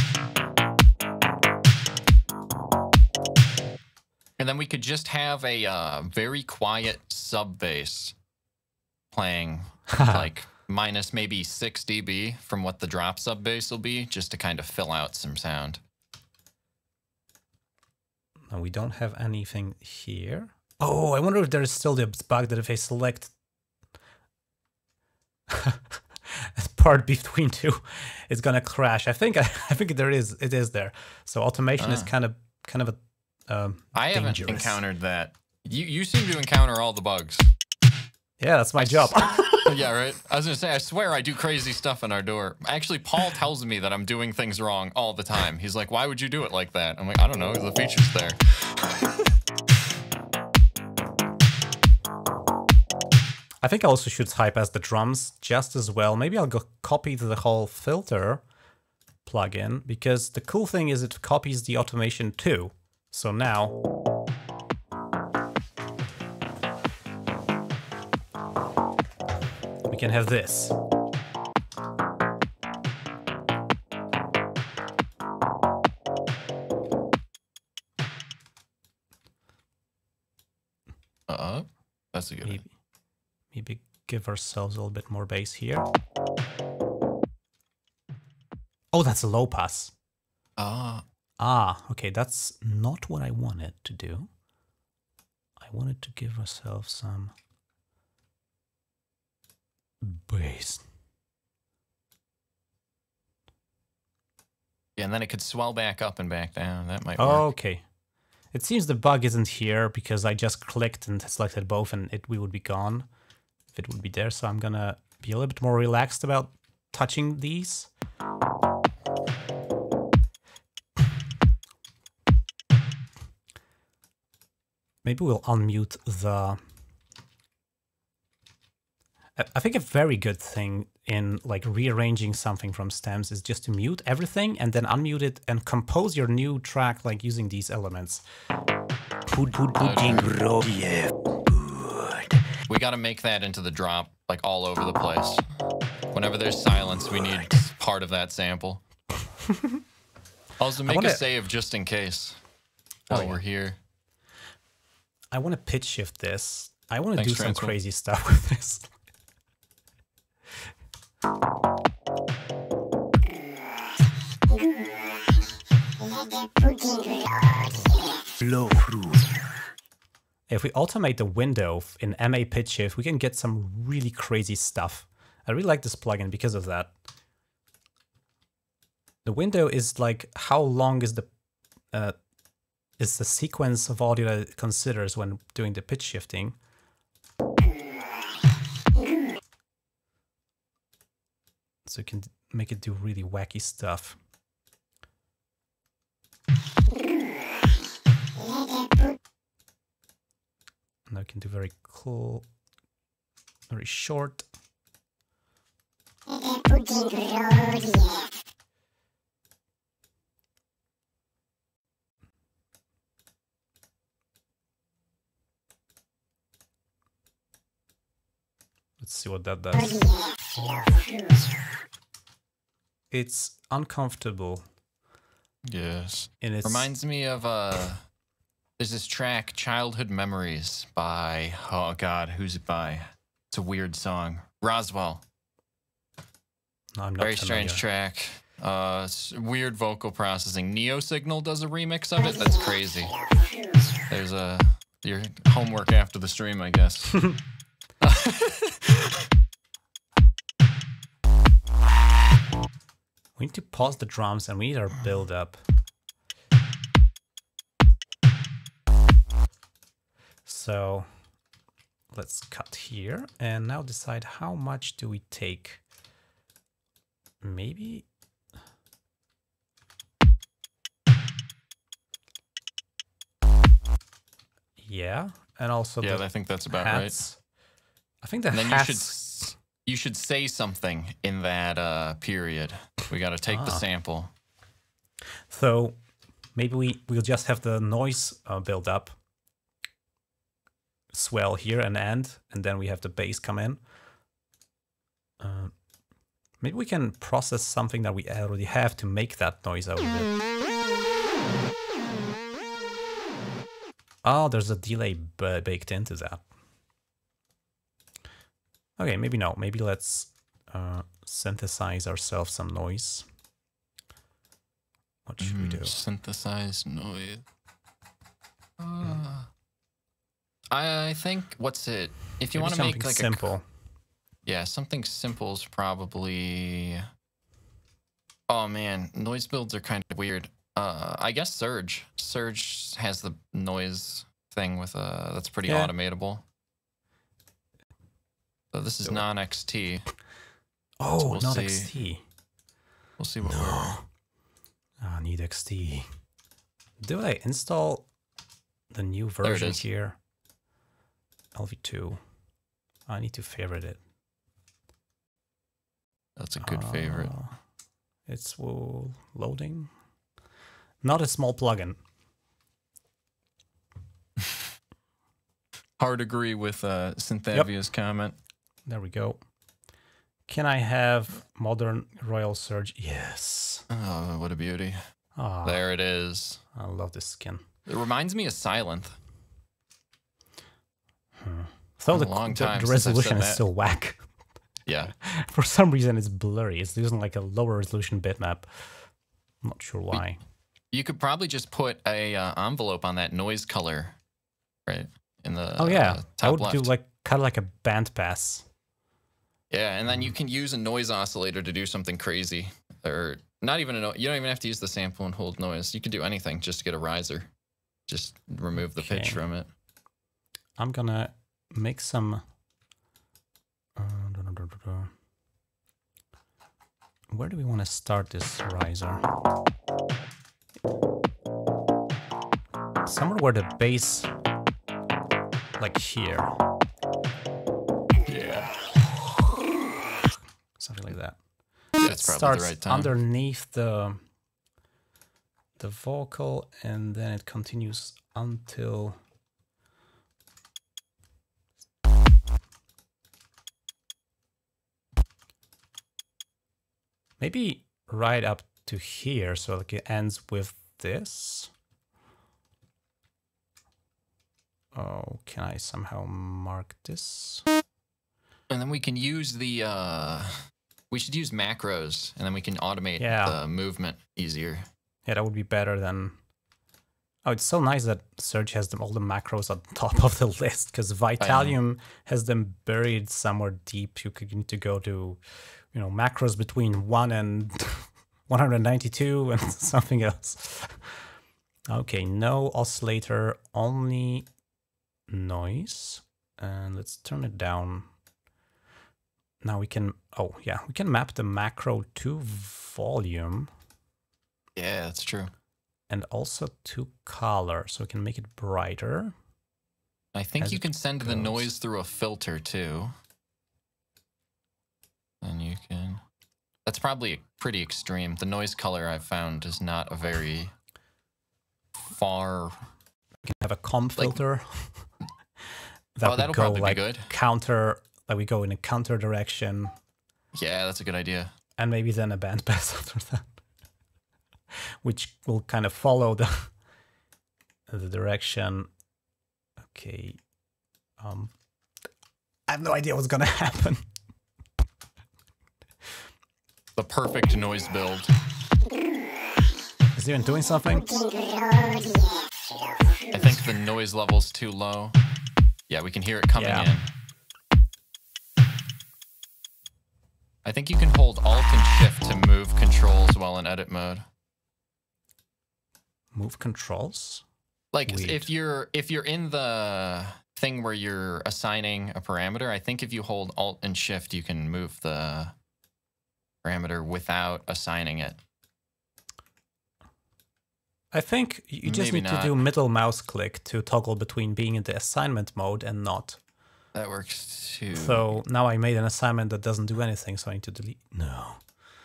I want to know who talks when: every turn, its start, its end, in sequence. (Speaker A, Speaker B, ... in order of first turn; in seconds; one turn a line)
Speaker A: 4.4-8.1
Speaker A: 9.1-15.8
Speaker B: 9.9-10.3
Speaker B: 18.5-23.3
Speaker B: 25.5-34.8
Speaker A: 31.8-32.1
Speaker A: 34.0-37.5
Speaker B: 38.4-39.7
Speaker A: 38.8-49.1
Speaker B: 53.6-58.4
Speaker B: 59.2-63.8
Speaker B: 69.9-70.8
Speaker A: 81.3-82.6
Speaker B: 83.5-85.8
Speaker B: 88.9-89.9
Speaker A: 90.6-91.0
Speaker B: 91.4-94.3
Speaker B: 95.6-97.3
Speaker B: 100.0-100.8
Speaker A: 105.0-107.5
Speaker B: 107.2-107.8
Speaker B: 108.5-113.1
Speaker B: 113.7-117.9
Speaker B: 125.0-126.6
Speaker B: 129.4-138.2
Speaker C: 139.3-142.4
Speaker A: 139.8-140.3
Speaker A: 142.7-145.4
Speaker A: 146.1-148.8
Speaker B: 149.4-149.8
Speaker A: 150.6-152.4
Speaker B: 150.8-151.2
Speaker A: 153.1-153.8
Speaker B: 153.1-153.4
Speaker B: 155.3-158.9
Speaker A: 157.2-157.7
Speaker C: 168.4-169.4
Speaker B: 170.5-176.9
Speaker B: 179.2-181.3
Speaker B: 183.0-186.6
Speaker B: 191.8-194.2
Speaker B: 201.1-202.5
Speaker B: 203.7-204.4
Speaker B: 219.0-220.1
Speaker B: 223.1-224.6
Speaker A: 225.7-228.0
Speaker B: 226.4-226.9
Speaker A: 228.8-235.2
Speaker B: 236.9-237.8
Speaker A: 237.2-243.1
Speaker A: 244.0-247.4
Speaker A: 248.0-249.2
Speaker B: 253.4-255.6
Speaker B: 260.5-261.1
Speaker B: 262.1-265.8
Speaker B: 267.4-268.1
Speaker B: 274.8-277.4
Speaker A: 276.0-277.2
Speaker B: 278.2-279.1
Speaker A: 278.5-284.3
Speaker B: 283.5-283.9
Speaker B: 285.5-286.0
Speaker B: 286.6-289.1
Speaker B: 291.1-293.8
Speaker B: 295.4-295.8
Speaker B: 296.6-300.3
Speaker B: 304.2-306.4
Speaker B: 309.0-313.3
Speaker B: 315.3-316.0
Speaker A: 315.4-317.4
Speaker A: 318.8-319.5
Speaker A: 320.7-323.4
Speaker B: 322.6-323.6
Speaker A: 324.5-327.1
Speaker A: 328.5-336.4
Speaker B: 335.7-335.9
Speaker A: 338.7-340.1
Speaker B: 341.0-342.2
Speaker A: 341.2-341.9
Speaker A: 343.2-344.0
Speaker B: 343.4-344.0
Speaker B: 345.0-346.1
Speaker B: 347.0-348.1
Speaker B: 348.9-350.2
Speaker A: 349.4-349.8
Speaker B: 351.6-352.2
Speaker B: 353.1-354.0
Speaker A: 356.4-357.3
Speaker B: 356.6-357.6
Speaker B: 358.3-359.9
Speaker B: 361.0-362.0
Speaker A: 366.0-368.4
Speaker B: 368.9-369.4
Speaker B: 370.5-373.9
Speaker A: 373.9-375.0
Speaker B: 375.4-375.8
Speaker A: 375.6-376.6
Speaker B: 376.8-377.6
Speaker A: 377.9-379.2
Speaker B: 381.4-384.2
Speaker A: 382.1-383.6
Speaker A: 384.9-385.1
Speaker B: 385.2-389.0
Speaker B: 389.6-390.4
Speaker A: 390.9-394.2
Speaker A: 394.9-396.9
Speaker B: 395.8-398.7
Speaker A: 399.7-407.5
Speaker A: 408.1-409.7
Speaker B: 409.0-409.4
Speaker B: 410.8-412.4
Speaker B: 414.0-415.1
Speaker B: 417.3-419.2
Speaker B: 423.0-424.3
Speaker B: 425.8-426.6
Speaker A: 428.3-428.7
Speaker B: 430.8-431.4
Speaker B: 432.0-434.2
Speaker A: 432.0-433.1
Speaker B: 435.8-439.2
Speaker B: 447.4-451.7
Speaker B: 454.9-457.6
Speaker A: 458.7-464.9
Speaker B: 463.2-463.6
Speaker B: 465.3-466.4
Speaker B: 467.4-475.4
Speaker A: 471.4-471.8
Speaker B: 475.9-481.2
Speaker B: 481.9-484.5
Speaker B: 485.3-488.1
Speaker B: 489.6-493.7
Speaker A: 494.8-495.5
Speaker B: 496.1-499.3
Speaker A: 500.4-503.1
Speaker B: 500.6-501.7
Speaker A: 505.4-506.2
Speaker A: 506.9-510.7
Speaker A: 512.1-512.9
Speaker B: 513.4-515.0
Speaker B: 516.2-519.9
Speaker A: 516.2-517.3
Speaker A: 520.5-521.5
Speaker B: 521.8-523.5
Speaker B: 525.0-526.7
Speaker B: 527.9-528.9
Speaker B: 529.8-530.4
Speaker B: 531.2-531.5
Speaker B: 532.7-534.1
Speaker A: 537.0-538.3
Speaker B: 540.2-541.2
Speaker A: 543.3-545.2
Speaker A: 545.9-547.1
Speaker B: 546.5-546.9
Speaker A: 550.6-554.2
Speaker B: 556.3-557.4
Speaker A: 557.9-565.5
Speaker B: 558.1-558.5
Speaker A: 566.6-568.4
Speaker B: 571.1-576.4
Speaker A: 571.8-572.6
Speaker A: 576.9-578.3
Speaker B: 578.0-581.6